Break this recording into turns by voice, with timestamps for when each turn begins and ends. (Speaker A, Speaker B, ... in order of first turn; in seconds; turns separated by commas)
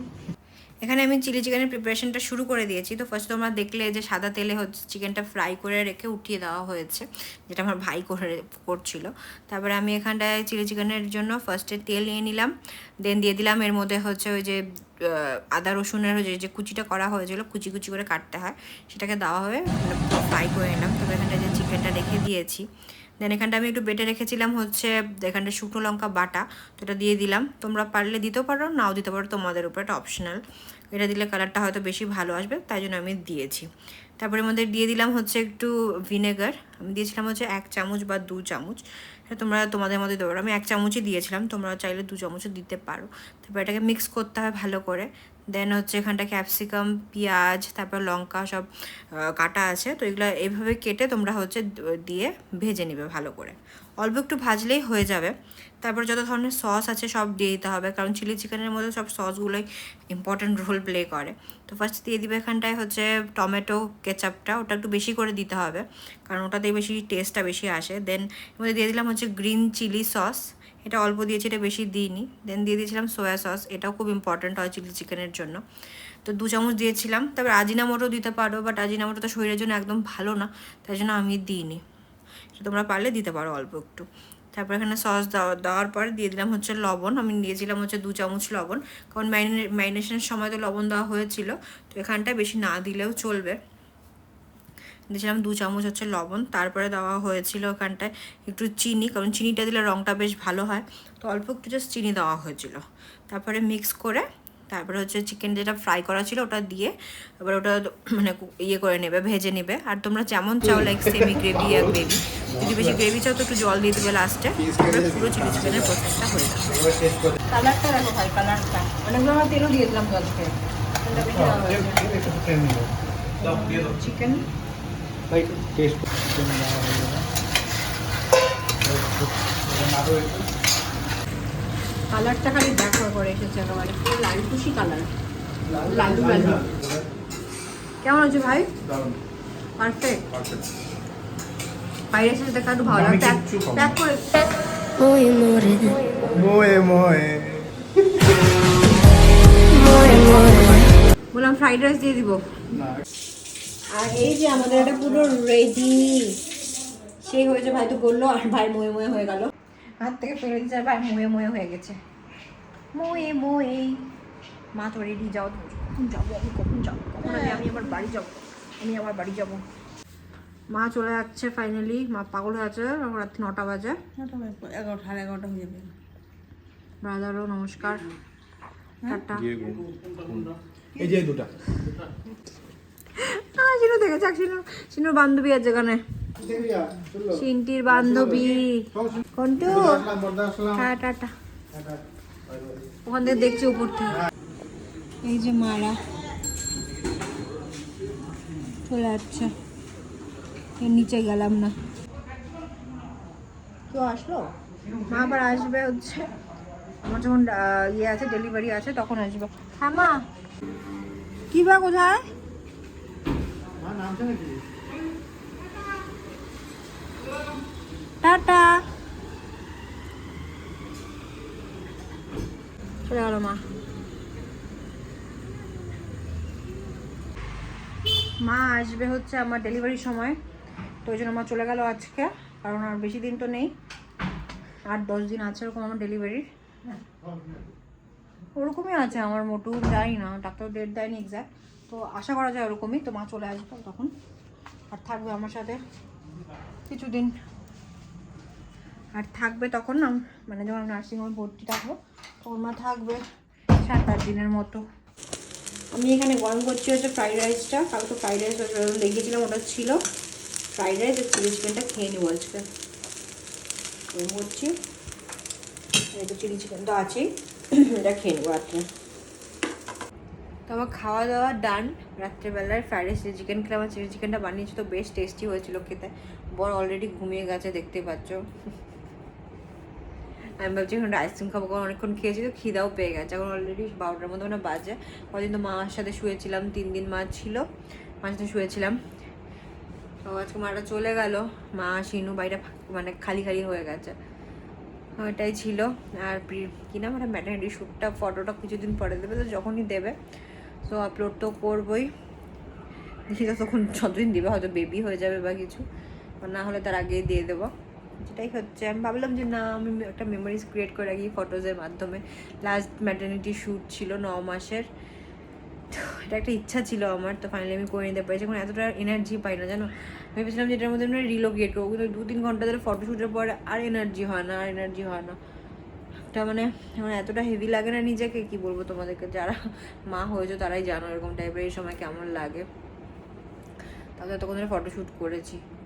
Speaker A: 0.8-22.7, Speaker A: 23.2-33.7, Speaker A: 34.2-48.7, Speaker A: 49.2-75.6, Speaker A: 76.2-81.8, Speaker A: 82.5-93.6, Speaker A: 95.1-116.8, Speaker B: 110.6-113.0, Speaker B: 114.6-116.0, Speaker B: 116.7-117.4, Speaker A: 117.5-122.1, Speaker B: 121.1-124.1, Speaker A: 123.4-124.5, Speaker B: 125.3-127.2, Speaker B: 128.8-130.5, Speaker A: 132.1-135.1, Speaker B: 135.7-137.1, Speaker A: 135.8-136.7, Speaker A: 138.0-138.7, Speaker B: 138.8-139.2, Speaker A: 139.8-140.2, Speaker B: 140.3-140.7, Speaker A: 142.1-144.3, Speaker B: 142.9-144.0, Speaker C: 145.0-146.0, Speaker A: 145.7-146.6, Speaker B: 146.3-147.9, Speaker A: 149.7-152.5, Speaker A: 153.9-156.4, Speaker A: 157.2-162.0, Speaker A: 163.0-164.1, Speaker A: 164.8-169.6, Speaker C: 167.2-167.8, Speaker A: 170.7-174.0, Speaker C: 174.2-175.9, Speaker A: 177.0-178.1, Speaker A: 179.1-179.5, Speaker B: 179.3-181.5, Speaker A: 183.2-186.0, Speaker B: 186.4-190.9, Speaker A: 187.3-191.3, Speaker B: 192.5-192.8, Speaker A: 193.1-194.3, Speaker A: 195.2-196.0, Speaker A: 198.8-199.5, Speaker A: 200.8-201.7, Speaker A: 203.9-204.5, Speaker A: 205.0-206.3, Speaker A: 207.0-210.2, Speaker A: 211.5-212.3, Speaker B: 213.8-214.5, Speaker A: 218.2-218.8, Speaker A: 223.1-223.6, Speaker A: 228.4-230.4, Speaker A: 231.1-233.7, Speaker A: 234.9-236.5, Speaker A: 238.6-244.1, Speaker A: 244.9-245.8, Speaker A: 246.9-247.3, Speaker A: 249.2-253.2, Speaker A: 253.7-254.8, Speaker A: 255.9-260.0, Speaker A: 260.7-262.7, Speaker A: 264.1-264.8, Speaker A: 266.1-268.9, Speaker A: 270.7-278.4, Speaker A: 280.6-287.7, Speaker A: 288.2-289.0, Speaker A: 290.3-294.1, Speaker A: 295.2-300.2, Speaker A: 300.8-302.1, Speaker A: 303.3-305.9, Speaker A: 306.4-314.9, Speaker A: 315.9-325.4, Speaker A: 326.3-332.7, Speaker A: 334.2-335.6